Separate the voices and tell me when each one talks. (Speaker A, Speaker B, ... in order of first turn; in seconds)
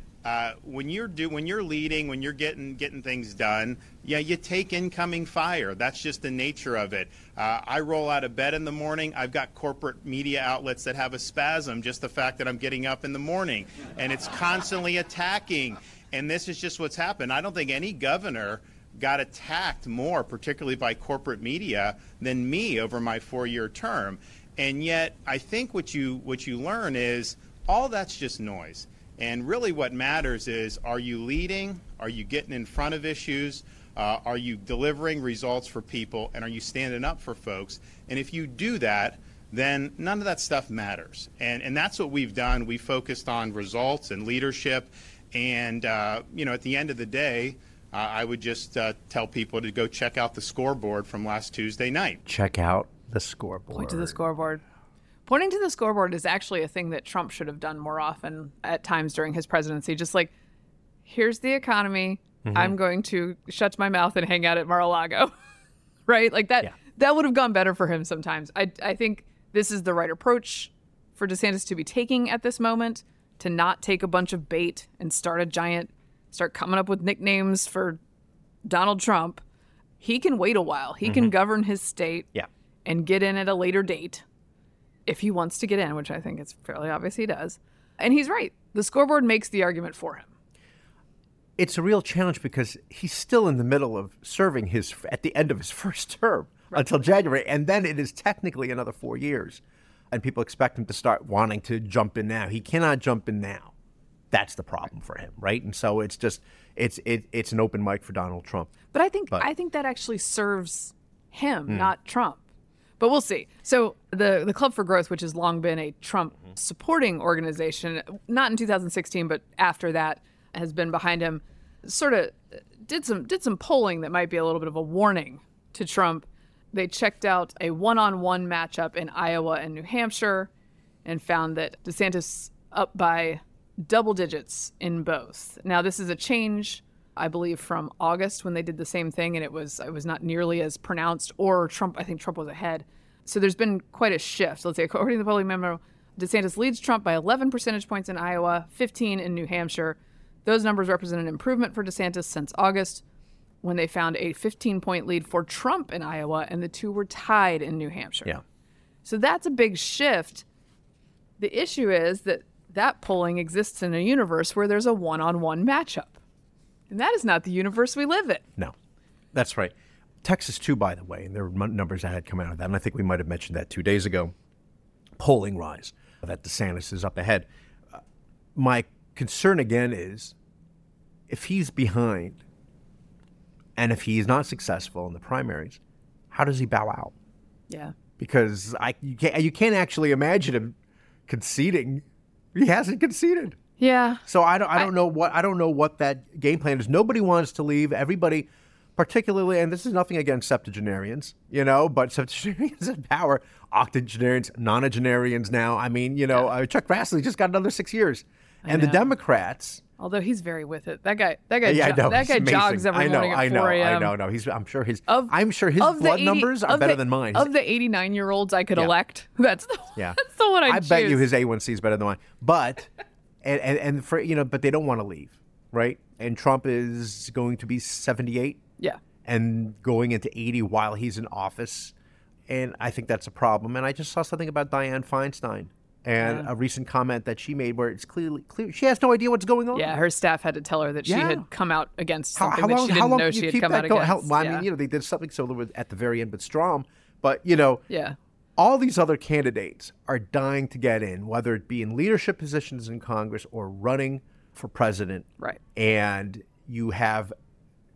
Speaker A: 0.2-52.2
Speaker B: 52.3-54.2, 62.4-62.8, 81.0-81.3, 91.6-103.7, 104.3-108.8, 111.7-111.9, 169.3-174.3, 175.2-178.0, 178.6-180.3, 181.3-182.4, 183.8-185.8, 186.3-187.1, 188.2-190.8, 191.3-193.6, 194.3-209.8, 211.6-217.5, 220.0-222.9, 223.4-228.6, 229.2-231.9, 232.5-239.9, 241.1-241.4, 242.4-247.8, 248.6-257.3
Speaker C: 53.7-54.6, 55.3-60.3, 61.0-65.3, 66.1-78.0, 78.7-79.4, 80.0-82.3, 82.8-84.2, 85.1-90.3, 108.9-112.4, 113.0-130.5, 131.1-153.0, 153.6-158.4, 159.1-160.4, 161.4-166.2, 166.9-168.5, 187.7-187.9, 193.8-194.9, 208.6-209.1, 210.0-214.1, 215.1-221.2, 236.2-236.5, 239.7-244.7, 247.9-248.2